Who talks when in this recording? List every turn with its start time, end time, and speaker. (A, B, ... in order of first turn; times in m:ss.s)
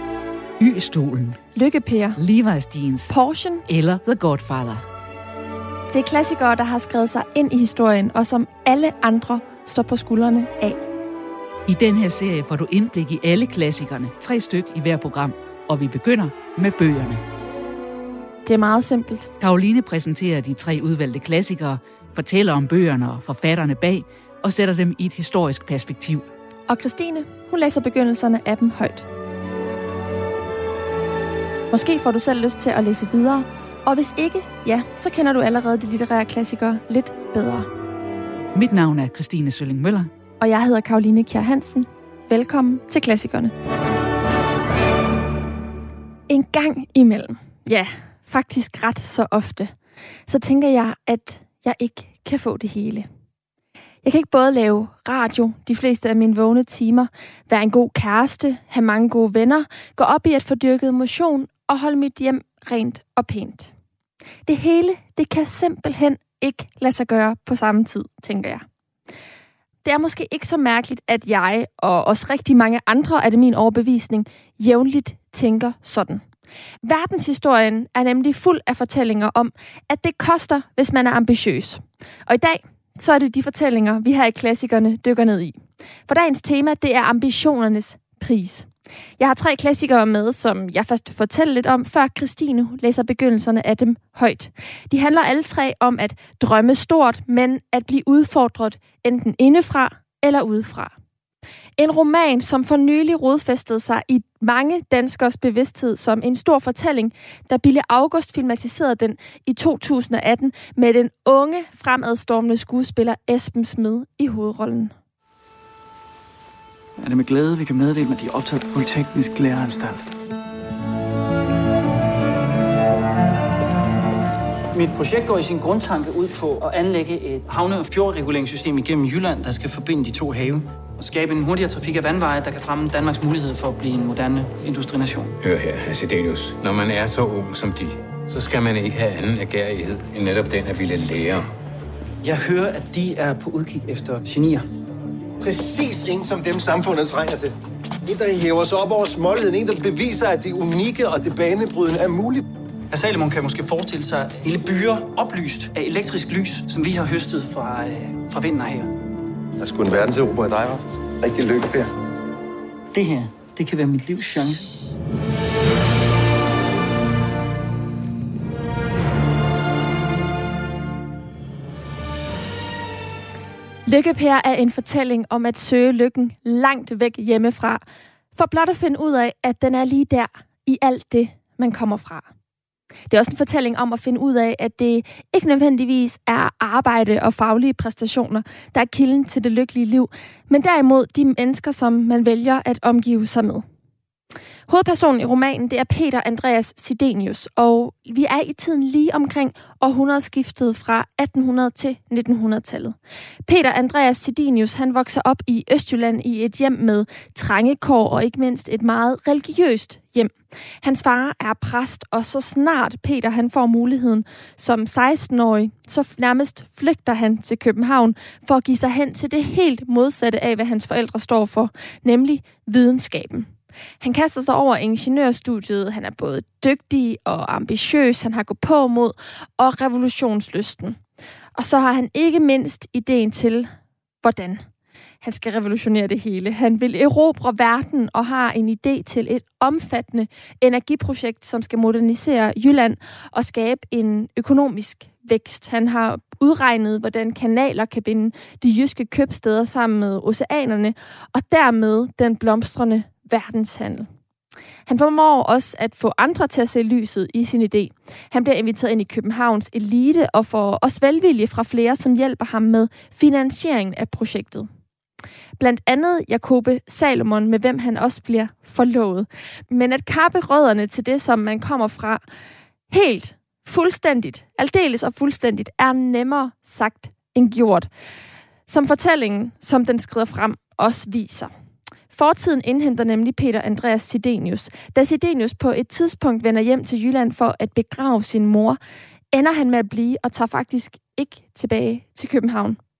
0:00.6-0:01.4 A
0:01.5-0:02.2 B
0:02.2-0:03.1 A
0:03.1-0:03.6 B
0:03.7-0:04.8 A
0:05.9-0:10.8 B
0:11.6-0:17.2 A
0:18.4-0:19.3 B
0:19.4-0:26.2 A
0:26.7-0:29.1 B
0:31.7-0:37.7 B
0:38.5-0:40.1 A
0:40.4-0:43.5 B
0:46.3-0:49.7 B
0:50.3-0:53.1 B
0:54.0-1:03.7 B
1:04.4-1:08.6 B
1:09.8-1:16.2 B
1:16.8-1:40.9 B
1:41.8-1:54.9 B
1:57.0-2:00.1 C
2:04.7-2:15.3 C
2:15.4-2:21.4 D
2:22.2-2:24.6 C
2:25.4-2:27.5 E
2:28.0-2:32.4 E
2:32.9-2:38.9 C
2:39.6-2:41.9 E
2:42.9-2:44.7 C
2:53.8-2:57.8 B
2:58.3-3:02.2 B
3:03.1-3:13.6 B
3:14.7-3:22.9 B
3:23.4-3:43.5 B
3:44.0-3:51.0 B
3:51.6-3:53.7 B
3:54.2-3:54.6 B
3:55.2-4:14.1 B
4:14.9-4:24.7 B
4:25.6-4:32.2 B
4:32.9-4:37.9 B
4:38.7-4:41.5 B
4:42.1-4:48.8 B
4:49.3-4:52.8 B